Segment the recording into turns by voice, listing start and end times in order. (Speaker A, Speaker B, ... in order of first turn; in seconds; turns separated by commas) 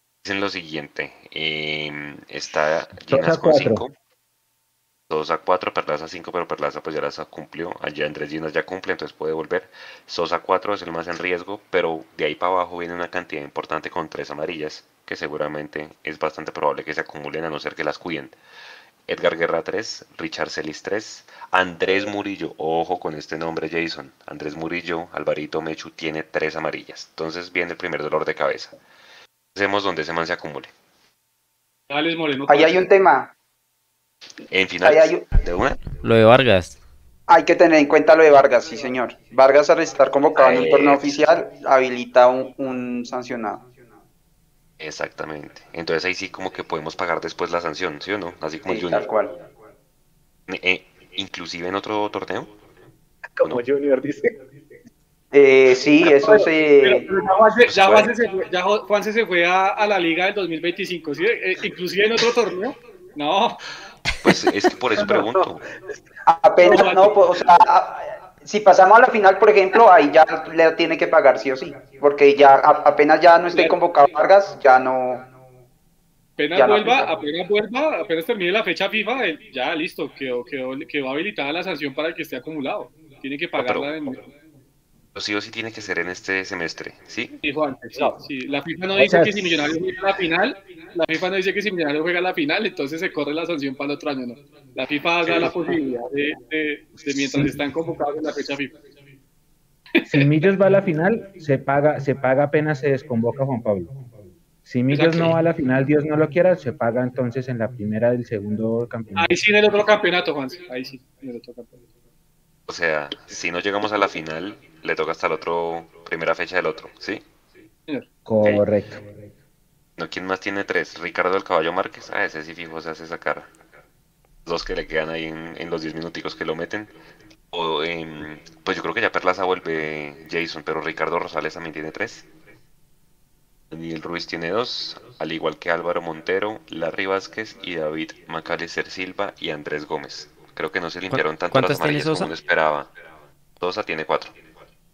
Speaker A: 0.2-3.9, Speaker B: 3.1-3.9, Speaker A: 5.1-18.4, Speaker A: 19.1-28.8, Speaker A: 29.6-30.7, Speaker C: 31.9-32.9, Speaker D: 32.5-33.3, Speaker A: 34.5-35.9, Speaker D: 34.8-35.3, Speaker E: 36.0-36.8, Speaker D: 37.3-43.7, Speaker A: 40.4-41.1, Speaker A: 44.8-49.1, Speaker D: 48.7-49.4, Speaker A: 50.5-52.5, Speaker B: 53.3-54.3, Speaker D: 55.3-57.1, Speaker C: 56.2-63.7, Speaker A: 57.6-58.1, Speaker A: 64.2-65.6, Speaker B: 65.0-65.4, Speaker D: 66.3-75.3, Speaker C: 66.6-67.3, Speaker C: 73.5-73.8, Speaker C: 76.4-84.2, Speaker D: 76.5-77.1, Speaker A: 83.6-83.9, Speaker A: 85.2-87.4, Speaker C: 87.4-98.8, Speaker B: 89.0-89.6, Speaker A: 95.2-95.5, Speaker B: 97.0-97.6, Speaker C: 100.0-100.5, Speaker B: 100.0-103.9, Speaker B: 104.6-109.3, Speaker C: 104.9-105.4, Speaker C: 109.2-111.8, Speaker A: 112.7-117.2, Speaker B: 118.3-119.0, Speaker A: 120.0-123.5, Speaker A: 124.5-126.9, Speaker A: 127.5-132.3, Speaker A: 133.7-142.9, Speaker E: 141.1-142.3, Speaker A: 143.6-144.4